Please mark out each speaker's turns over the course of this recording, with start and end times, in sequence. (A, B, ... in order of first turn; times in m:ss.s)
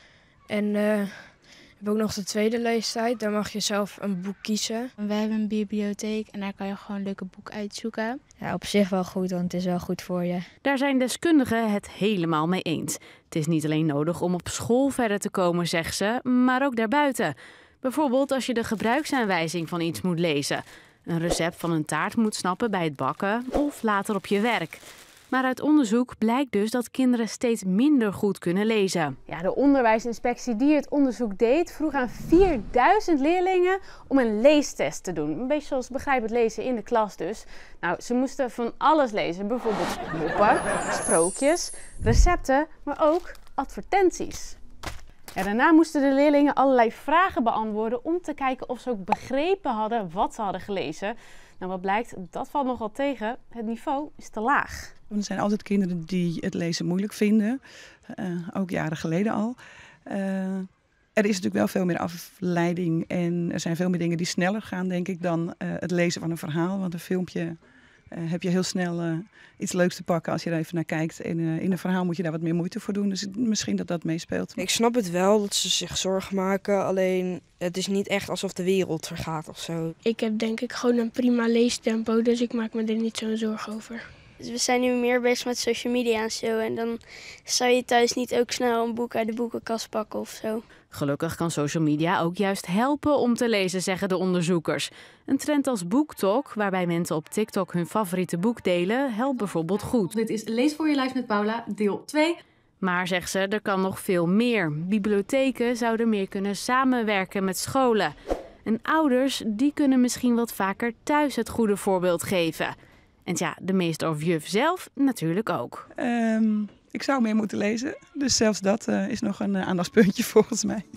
0:00.5-0:04.9 A
0:05.0-0:08.2 B
0:08.4-0:10.5 C
0:10.6-0:44.6 D
0:45.4-0:54.9 D
0:55.1-1:14.6 E
1:14.6-1:19.9 F
1:20.0-1:24.1 G
1:24.4-1:30.6 H
1:30.9-1:40.2 D
1:40.1-1:42.4 I
1:42.8-1:52.8 D
1:53.3-1:55.9 D
1:56.0-2:00.9 E